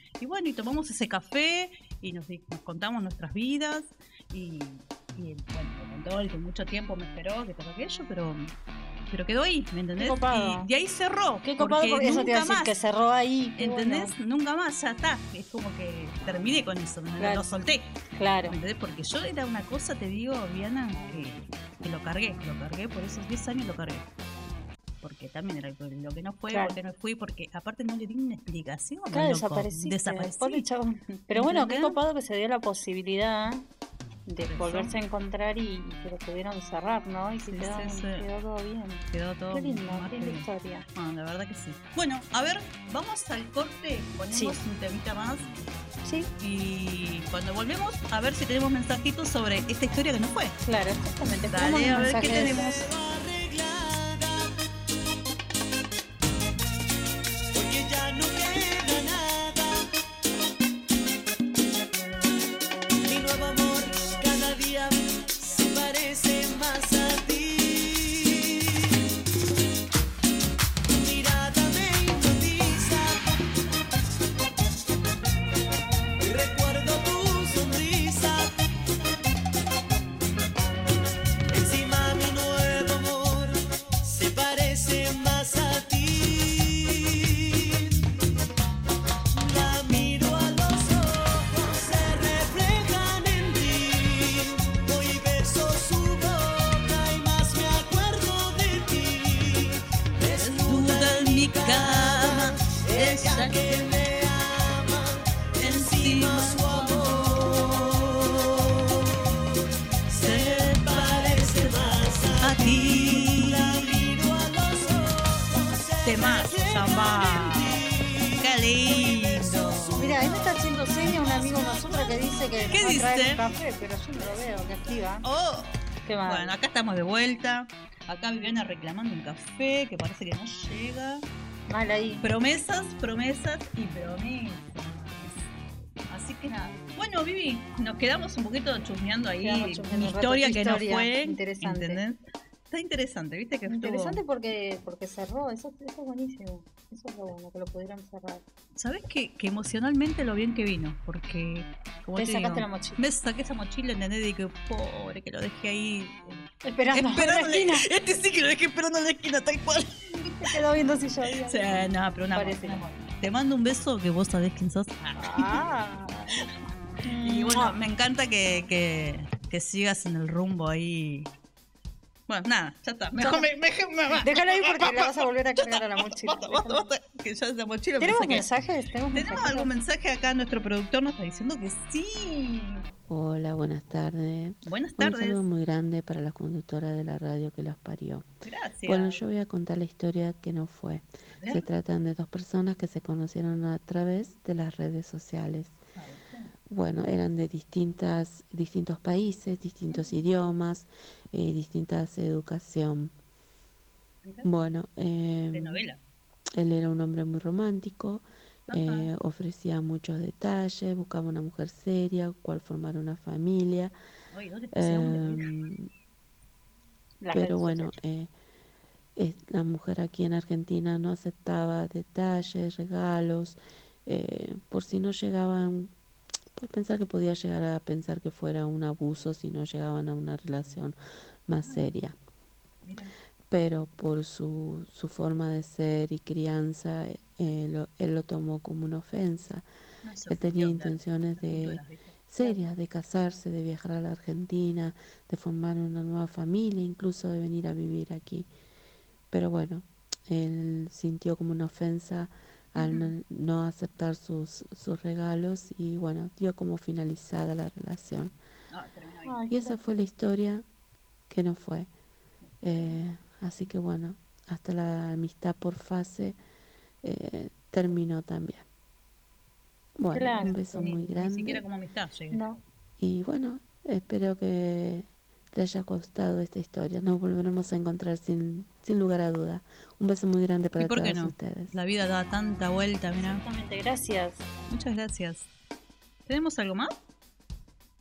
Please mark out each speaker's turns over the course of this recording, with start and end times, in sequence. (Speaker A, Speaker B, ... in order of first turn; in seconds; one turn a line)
Speaker A: 0.2-8.5
Speaker A: 9.1-12.7
Speaker B: 10.0-10.7
Speaker B: 11.4-14.1
Speaker A: 13.6-18.0
Speaker B: 17.2-18.6
Speaker A: 18.5-24.1
Speaker A: 25.0-30.6
Speaker B: 26.5-26.8
Speaker B: 29.1-33.6
Speaker A: 31.3-32.0
Speaker B: 34.3-40.9
Speaker A: 34.4-34.9
Speaker A: 37.4-38.2
Speaker A: 39.1-45.5
Speaker B: 44.3-44.6
Speaker B: 46.0-46.3
Speaker A: 46.4-50.6
Speaker B: 50.6-52.9
Speaker A: 51.5-52.8
Speaker C: 52.1-54.5
Speaker C: 57.5-59.9
Speaker C: 63.0-68.5
Speaker C: 70.9-73.4
Speaker C: 76.2-78.5
Speaker C: 81.5-87.9
Speaker C: 89.3-109.1
Speaker A: 100.4-103.9
Speaker A: 105.6-107.5
Speaker C: 110.1-122.6
Speaker A: 110.2-114.1
Speaker A: 116.0-117.8
Speaker A: 118.4-120.2
Speaker B: 120.0-125.2
Speaker A: 122.7-123.4
Speaker A: 125.2-131.2
Speaker B: 126.0-126.5
Speaker B: 131.7-132.2
Speaker A: 132.2-135.4
Speaker A: 136.1-144.2
Speaker B: 139.4-142.0
Speaker B: 143.7-148.4
Speaker A: 148.8-160.6
Speaker B: 152.2-153.0
Speaker B: 156.6-157.8
Speaker B: 160.4-162.9
Speaker A: 161.4-165.6
Speaker B: 165.2-166.5
Speaker B: 167.0-167.8
Speaker A: 167.2-171.3
Speaker A: 172.3-178.4
Speaker B: 173.2-173.5
Speaker B: 174.2-176.9
Speaker B: 178.0-179.7
Speaker A: 179.1-182.8
Speaker D: 183.1-188.2
Speaker A: 184.6-185.4
Speaker A: 188.4-189.2
Speaker D: 188.8-195.8
Speaker A: 191.4-191.7
Speaker A: 195.9-196.5
Speaker D: 196.7-203.1
Speaker A: 204.2-204.5
Speaker D: 204.4-205.8
Speaker A: 205.5-206.0
Speaker D: 206.6-213.9
Speaker A: 208.7-209.1
Speaker A: 214.3-215.5
Speaker D: 214.7-215.9
Speaker B: 217.2-217.9
Speaker D: 217.3-218.3
Speaker D: 219.2-225.9
Speaker D: 226.6-230.9
Speaker D: 231.5-232.2
Speaker A: 231.6-231.9
Speaker A: 232.8-233.1
Speaker D: 233.5-239.6
Speaker A: 240.0-242.6
Speaker D: 240.3-248.5
Speaker D: 249.3-258.3
Speaker A: 252.8-253.1
Speaker A: 258.7-259.4
Speaker B: 259.2-259.8
Speaker D: 259.5-260.6
Speaker D: 261.3-261.9
Speaker D: 262.6-266.4
Speaker D: 267.0-268.6
Speaker D: 270.0-271.6
Speaker B: 270.1-271.0
Speaker A: 270.4-272.4
Speaker B: 272.3-272.6
Speaker D: 273.0-281.7
Speaker A: 280.8-283.4
Speaker B: 283.2-284.4
Speaker A: 284.7-285.5
Speaker A: 286.2-286.9